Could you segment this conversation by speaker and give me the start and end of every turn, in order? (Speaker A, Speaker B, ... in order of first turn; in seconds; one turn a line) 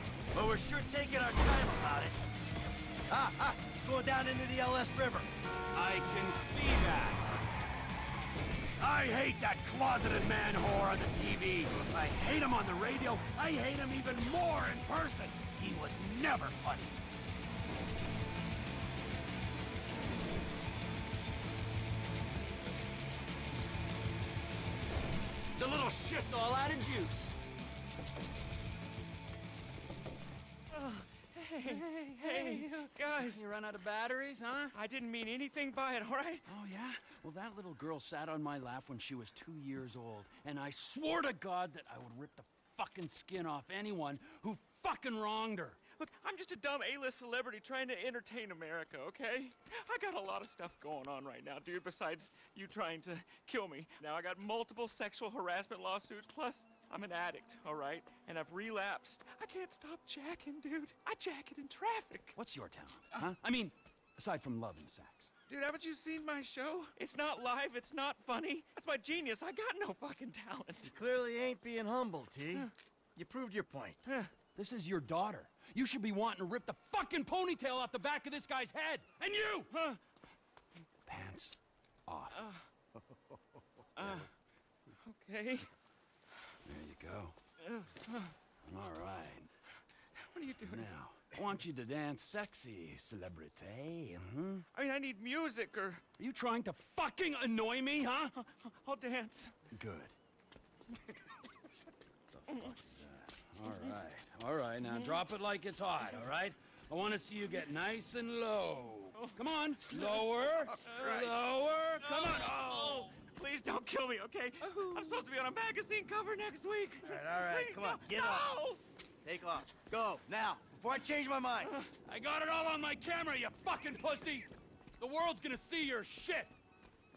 Speaker A: 0.3-2.2
Speaker A: 3.1-5.3
Speaker B: 5.7-7.2
Speaker B: 8.8-17.0
Speaker A: 11.8-12.1
Speaker B: 25.5-27.4
Speaker C: 30.7-33.4
Speaker B: 32.2-34.7
Speaker C: 34.7-36.5
Speaker B: 36.5-45.8
Speaker C: 46.0-62.4
Speaker B: 62.3-65.3
Speaker C: 65.5-70.9
Speaker A: 70.8-74.0
Speaker C: 74.0-74.3
Speaker B: 74.5-79.7
Speaker C: 79.7-80.0
Speaker B: 81.0-81.5
Speaker B: 82.1-82.5
Speaker C: 82.3-82.6
Speaker C: 84.0-84.3
Speaker C: 85.0-85.7
Speaker B: 86.6-87.3
Speaker C: 87.6-88.3
Speaker B: 88.6-89.5
Speaker C: 90.1-90.9
Speaker B: 90.6-94.7
Speaker C: 94.7-96.0
Speaker B: 96.2-98.3
Speaker C: 98.3-99.5
Speaker B: 99.7-100.1
Speaker B: 102.3-113.1
Speaker C: 110.8-111.4
Speaker C: 112.0-118.8
Speaker A: 117.0-118.5
Speaker A: 119.2-121.7
Speaker B: 122.0-126.5